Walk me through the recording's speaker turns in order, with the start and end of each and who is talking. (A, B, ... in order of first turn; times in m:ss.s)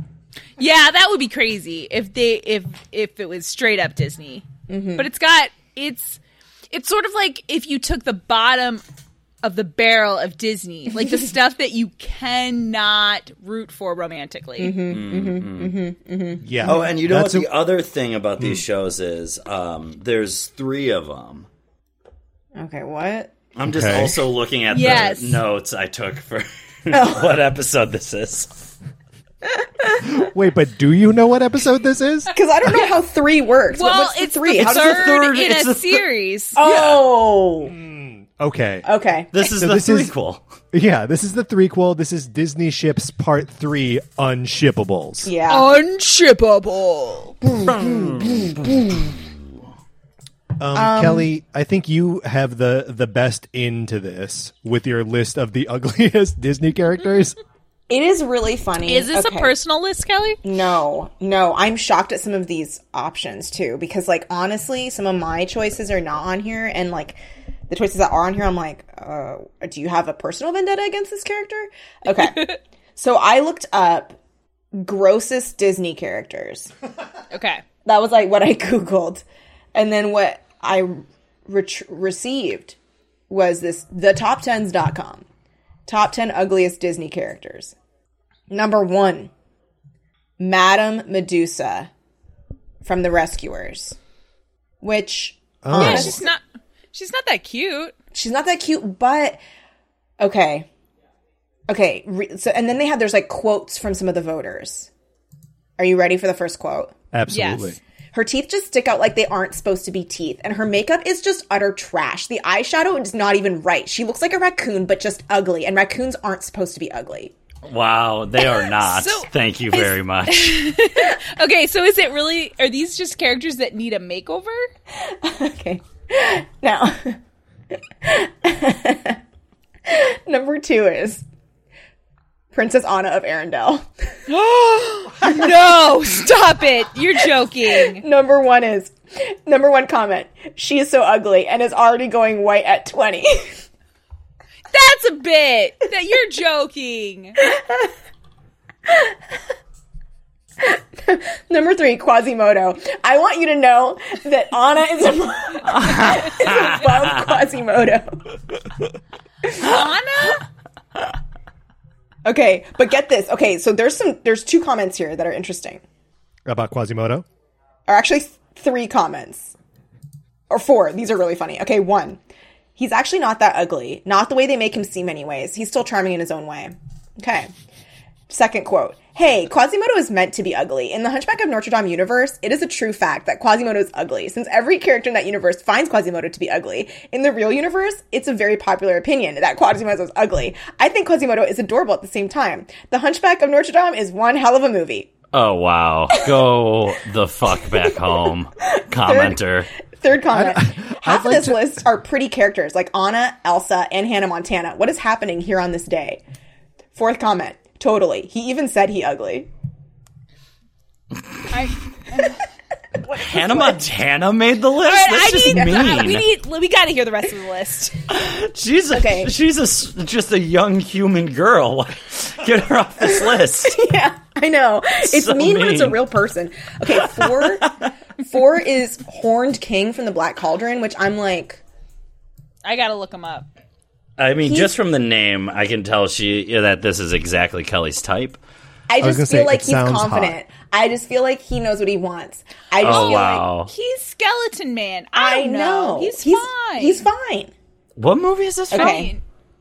0:00.6-0:06.2 A
0:04.7-0:05.1 B
0:06.7-0:08.8 A
0:09.4-0:14.8 A
0:14.6-0:16.9 B
0:14.9-0:15.8 C
0:16.4-0:17.5 D
0:16.6-0:21.5 C
0:22.6-0:23.3 B
0:23.6-0:28.6 C
0:23.6-0:24.2 D
0:24.7-0:25.4 A
0:26.9-0:27.4 B
0:30.1-0:32.3 D
0:32.3-0:35.2 B
0:33.7-0:36.6 A
0:34.6-0:36.0 C
0:36.6-0:37.7 B
0:36.6-0:37.0 C
0:37.6-0:38.9 D
0:38.8-0:39.3 B
0:39.3-0:40.4 C
0:39.4-0:40.1 D
0:40.7-0:45.3 D
0:45.2-0:45.8 B
0:45.5-0:47.4 A
0:47.4-0:49.2 B
0:47.8-0:48.5 C
0:50.6-0:57.4 D
0:50.8-0:51.3 B
0:57.9-0:59.6 B
0:58.8-1:00.4 A
1:00.4-1:14.2 B
1:14.8-1:16.7 B
1:17.3-1:17.6 A
1:17.8-1:22.8 B
1:23.3-1:25.2 B
1:25.9-1:27.7 B
1:28.5-1:29.3 B
1:30.4-1:31.9 B
1:32.8-1:34.0 B
1:34.8-1:36.2 B
1:35.6-1:36.2 D
1:35.8-1:36.4 A
1:36.9-1:38.0 A
1:38.1-1:39.4 B
1:40.2-1:40.7 B
1:41.7-1:44.9 B
1:45.8-1:46.9 B
1:47.1-1:47.8 D
1:47.3-1:47.8 A
1:48.1-1:57.3 B
1:57.7-2:00.7 C
1:58.5-2:04.7 A
2:05.0-2:07.2 B
2:08.0-2:09.2 B
2:09.9-2:11.2 B
2:12.5-2:13.8 B
2:14.3-2:18.0 A
2:15.2-2:15.5 B
2:17.7-2:23.6 B
2:24.7-2:27.4 A
2:27.4-2:27.9 B
2:28.9-2:29.2 B
2:30.6-2:38.2 B
2:35.7-2:36.8 C
2:39.6-2:40.4 A
2:42.2-2:45.8 B
2:46.5-2:47.2 D
2:47.9-2:49.6 B
2:50.5-2:52.2 B
2:52.8-2:57.5 B
2:58.3-3:15.1 B
3:15.3-3:19.7 C
3:19.0-3:19.4 B
3:20.0-3:26.2 B
3:20.3-3:21.7 D
3:27.0-3:29.5 B
3:31.5-3:32.4 A
3:33.0-3:33.8 B
3:33.2-3:36.3 C
3:34.8-3:37.9 A
3:35.5-3:36.1 B
3:38.1-3:43.8 C
3:38.9-3:39.3 B
3:43.7-3:47.7 B
3:45.0-3:46.0 C
3:47.0-3:47.6 C
3:48.2-3:51.6 B
3:52.6-3:53.5 A
3:54.2-3:58.4 C
3:54.4-3:54.7 B
3:58.9-4:03.4 B
3:59.0-4:00.4 D
4:02.8-4:03.7 C
4:02.8-4:07.1 A
4:05.1-4:07.5 B
4:08.0-4:09.0 C
4:08.7-4:09.1 B
4:08.7-4:09.2 A